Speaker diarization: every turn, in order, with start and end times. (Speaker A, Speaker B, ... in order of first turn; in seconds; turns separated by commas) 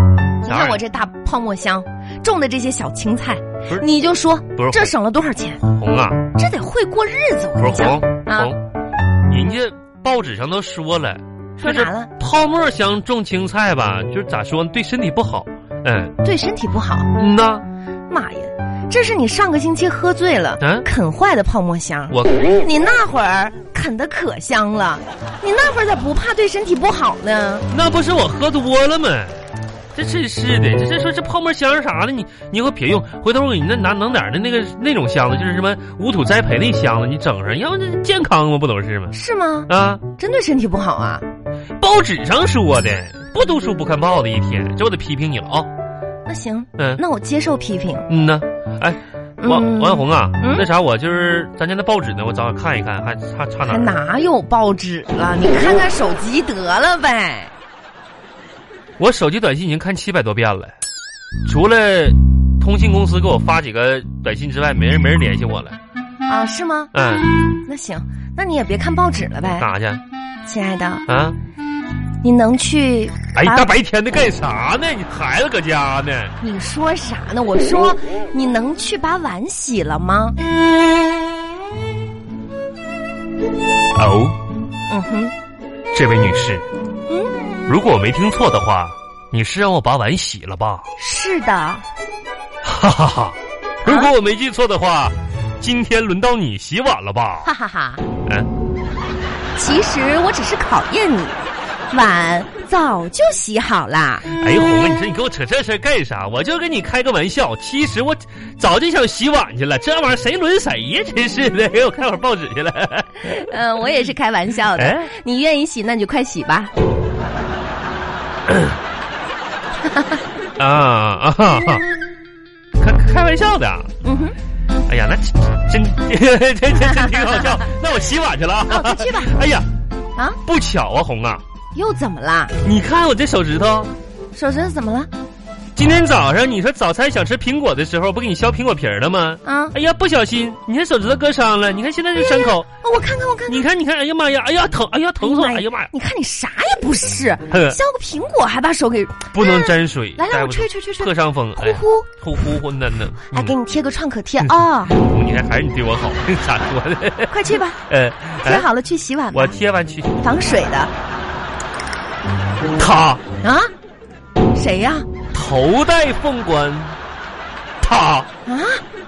Speaker A: 0.4-5.6, Speaker B: 0.4-0.8, Speaker B: 4.6-4.9, Speaker B: 5.8-6.3, Speaker A: 6.3-8.5, Speaker B: 7.6-8.6, Speaker B: 9.3-16.1, Speaker A: 11.6-12.1, Speaker A: 16.2-17.1, Speaker B: 17.1-17.6, Speaker A: 18.1-27.6, Speaker B: 20.6-20.9, Speaker B: 22.1-22.4, Speaker B: 27.7-29.4, Speaker B: 29.9-39.1, Speaker A: 39.1-41.2, Speaker B: 39.7-40.0, Speaker B: 41.8-45.7, Speaker A: 46.2-48.1, Speaker B: 46.8-47.0, Speaker B: 48.1-53.9, Speaker A: 49.4-50.7, Speaker A: 53.6-57.5, Speaker B: 59.0-60.7, Speaker B: 61.4-65.8, Speaker A: 66.3-66.9, Speaker B: 66.9-67.3, Speaker A: 67.5-69.7, Speaker B: 69.6-70.0, Speaker A: 70.5-71.0, Speaker B: 71.1-71.4, Speaker A: 72.2-73.7, Speaker B: 73.3-76.3, Speaker A: 76.4-80.4, Speaker B: 83.9-84.4, Speaker A: 84.9-85.3, Speaker B: 85.9-86.6, Speaker A: 87.1-87.4, Speaker B: 87.7-90.8, Speaker A: 91.0-91.8, Speaker B: 92.6-97.5, Speaker A: 93.8-94.1, Speaker A: 97.4-98.0, Speaker A: 99.5-101.4, Speaker A: 101.9-104.2, Speaker B: 104.3-113.4, Speaker A: 113.2-116.7, Speaker B: 114.7-115.1, Speaker B: 118.5-118.7, Speaker A: 119.9-120.2, Speaker B: 120.6-121.8, Speaker B: 122.8-123.9, Speaker A: 124.0-124.3, Speaker B: 124.9-129.7, Speaker A: 126.8-127.6, Speaker A: 128.7-129.3, Speaker B: 130.4-131.4, Speaker A: 131.7-132.5, Speaker B: 132.6-133.9, Speaker A: 134.3-135.1, Speaker B: 135.8-142.7, Speaker A: 139.4-139.7, Speaker A: 142.3-143.6, Speaker B: 143.5-145.9, Speaker A: 145.2-152.1, Speaker B: 147.5-147.8, Speaker B: 149.3-153.6, Speaker A: 153.3-154.9, Speaker B: 154.4-157.3, Speaker A: 157.3-157.8, Speaker B: 157.9-158.7, Speaker A: 158.4-159.6, Speaker B: 159.3-160.2, Speaker A: 160.2-160.9, Speaker B: 162.8-163.2, Speaker A: 163.4-163.7, Speaker A: 164.5-165.1, Speaker B: 165.3-167.0, Speaker B: 167.8-168.3, Speaker A: 168.4-168.8